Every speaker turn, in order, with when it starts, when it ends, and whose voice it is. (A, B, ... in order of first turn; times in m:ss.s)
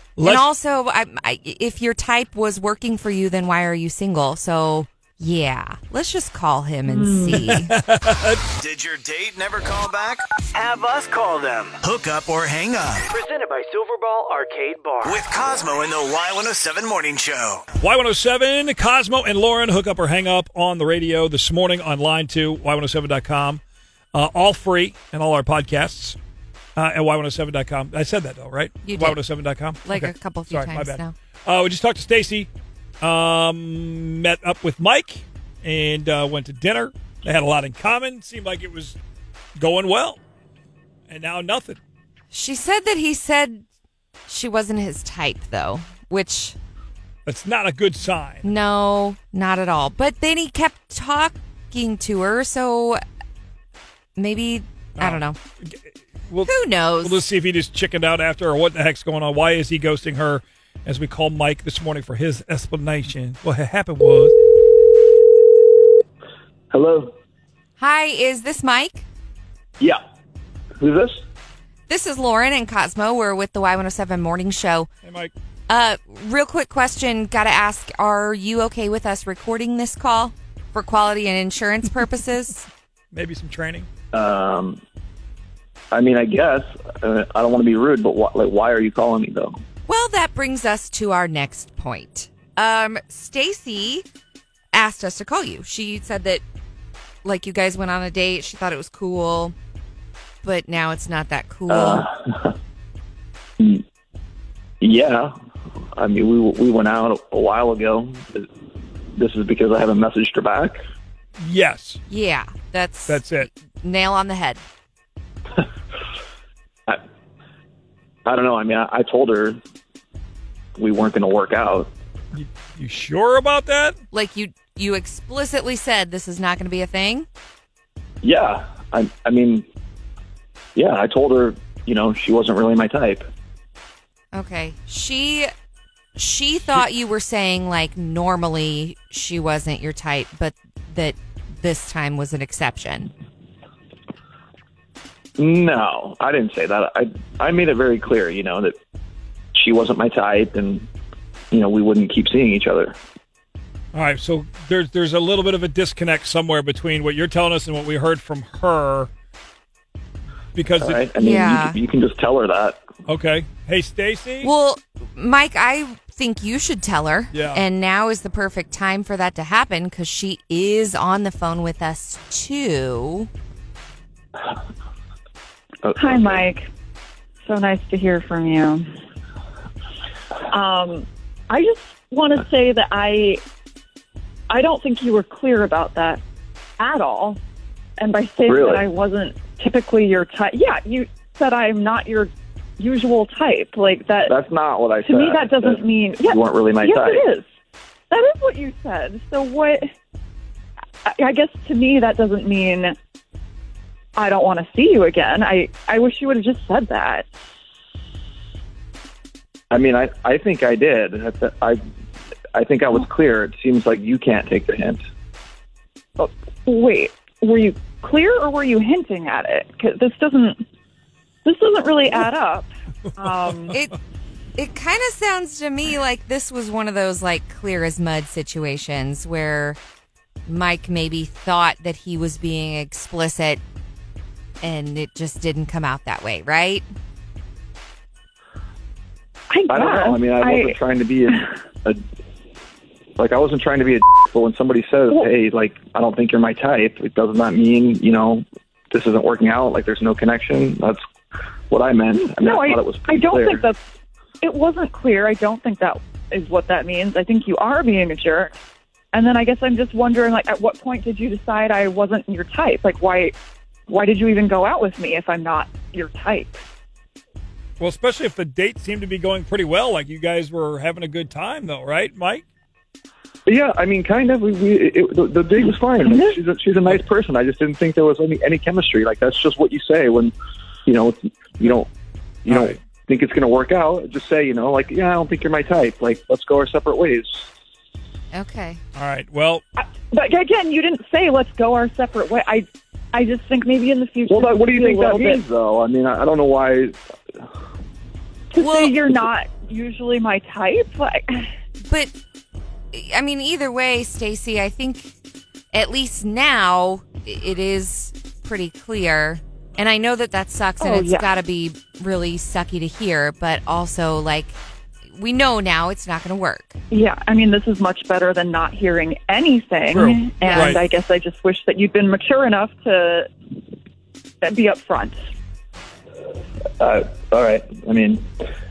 0:00.2-0:00.4 A
0:00.2-0:07.7 B
0:06.8-0:07.3 C
0:07.3-0:08.4 A
0:08.6-0:13.1 D
0:10.5-0:11.3 E
0:13.1-0:15.4 E
0:15.0-0:17.7 D
0:17.8-0:23.6 A
0:24.1-0:26.2 A
0:26.8-0:32.5 A
0:28.8-0:29.2 B
0:29.8-0:31.1 B
0:33.0-0:39.0 A
0:39.6-0:40.2 A
0:41.1-0:41.8 A
0:42.3-0:43.6 B
0:44.3-0:46.6 B
0:47.2-0:48.5 A
0:48.4-0:53.0 B
0:54.2-0:55.4 B
0:55.0-1:04.3 A
0:56.4-0:57.2 B
1:06.7-1:07.1 F
1:07.8-1:09.0 B
1:10.8-1:11.2 F
1:11.9-1:14.9 B
1:15.0-1:15.3 A
1:15.7-1:22.7 B
1:23.1-1:23.9 A
1:24.1-1:24.8 F
1:25.9-1:29.6 F
1:29.9-1:34.0 B
1:34.7-1:36.4 B
1:37.2-1:39.5 B
1:40.4-1:42.1 B
1:41.7-1:42.5 F
1:44.8-1:45.3 F
1:46.0-1:48.5 F
1:49.1-1:50.8 F
1:51.4-1:52.0 A
1:52.1-1:54.6 B
1:53.1-1:53.5 A
1:58.2-1:59.6 F
2:00.8-2:01.9 F
2:02.3-2:04.0 A
2:04.1-2:07.3 B
2:08.2-2:09.6 F
2:10.8-2:13.3 F
2:14.3-2:15.5 B
2:16.2-2:23.1 B
2:25.4-2:28.8 F
2:29.5-2:30.9 F
2:31.5-2:32.9 F
2:33.9-2:39.1 A
2:40.5-2:41.1 A
2:40.8-2:42.8 F
2:41.2-2:41.8 B
2:43.0-2:44.5 A
2:44.4-2:53.3 B
2:47.3-2:47.6 A
2:55.8-2:56.4 F
2:56.0-2:56.6 C
2:57.4-2:58.8 C
3:00.5-3:03.4 C
3:04.5-3:06.2 C
3:06.8-3:07.4 C
3:08.0-3:14.3 C
3:08.5-3:08.8 F
3:14.2-3:17.2 F
3:15.0-3:17.4 C
3:18.1-3:19.9 C
3:21.0-3:23.0 C
3:24.2-3:27.2 C
3:29.7-3:31.8 F
3:32.5-3:35.0 F
3:36.2-3:40.6 C
3:41.4-3:43.8 C
3:43.7-3:44.0 B
3:44.6-3:49.8 B
3:50.4-3:53.6 B
3:54.6-3:56.8 B
3:59.5-4:00.7 C
3:59.7-4:02.0 F
4:03.2-4:11.0 F
4:11.7-4:13.6 F
4:12.4-4:13.8 C
4:14.4-4:18.6 C
4:19.1-4:23.3 C
4:23.9-4:26.6 C
4:27.8-4:32.4 A
4:33.4-4:40.3 F
4:36.1-4:36.3 C
4:40.8-4:41.9 F
4:42.4-4:47.5 F
4:42.5-4:42.8 A
4:48.3-4:48.8 B
4:48.9-4:49.6 A
4:49.8-4:55.4 C
4:54.3-4:57.0 F
4:58.5-5:01.5 C
4:58.6-4:59.0 B
5:01.8-5:02.1 B
5:02.9-5:05.1 B
5:05.7-5:14.6 B
5:10.8-5:11.3 C
5:15.1-5:16.8 B
5:16.9-5:23.3 C
5:19.9-5:20.8 A
5:20.4-5:20.8 B
5:24.4-5:25.2 C
5:26.8-5:28.3 F